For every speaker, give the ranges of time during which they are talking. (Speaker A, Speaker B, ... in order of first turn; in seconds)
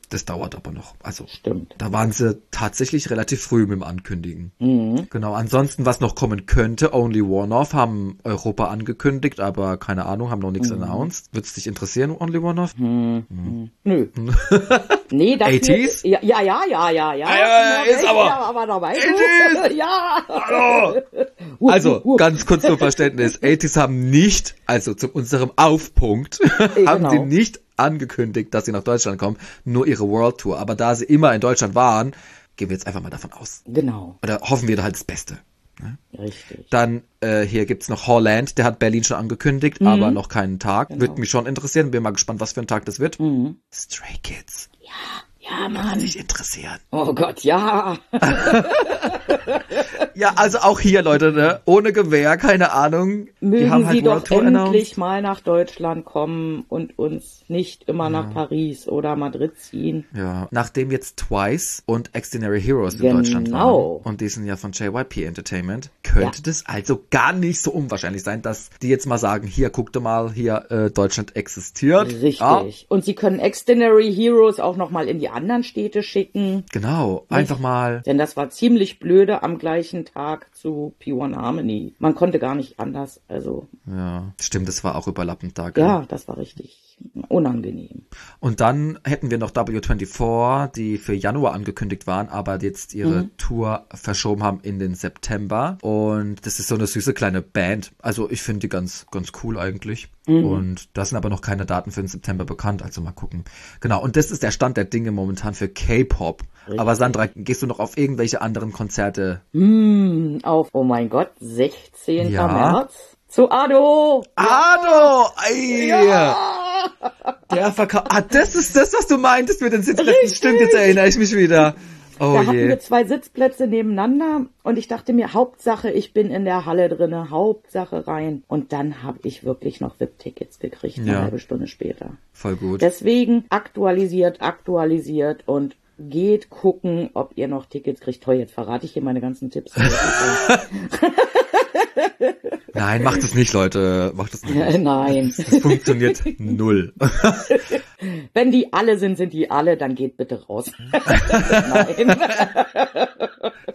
Speaker A: 0.1-4.5, 5.1-12.8, 13.3-13.6, 14.1-16.0, 17.3-18.4, 18.9-19.7, 20.3-21.0, 21.7-33.6, 34.2-36.0, 36.7-43.2, 43.7-44.7, 45.7-46.8, 48.2-49.4, 50.1-54.9, 58.0-58.4, 60.1-72.7, 76.7-78.0, 83.9-86.0, 88.4-109.4, 112.2-112.8, 114.4-116.4, 117.5-122.8, 131.0-131.3, 132.4-132.9, 139.8-140.7, 142.7-147.7, 151.1-152.4
Speaker B: 1.3-1.8, 4.6-5.1, 10.6-11.1, 12.8-14.1, 15.1-23.5, 26.7-27.3, 33.7-34.2, 36.1-36.7, 39.8-40.2, 40.9-41.2, 43.2-43.6, 44.9-46.1, 46.9-50.0, 53.4-60.0, 62.9-64.0, 72.0-76.7, 77.3-83.7, 85.8-88.0, 93.0-93.3, 100.3-100.7, 106.7-107.2, 109.5-115.1, 115.7-117.5, 120.0-121.0, 122.3-132.2, 132.8-143.2, 144.5-146.4, 147.5-153.5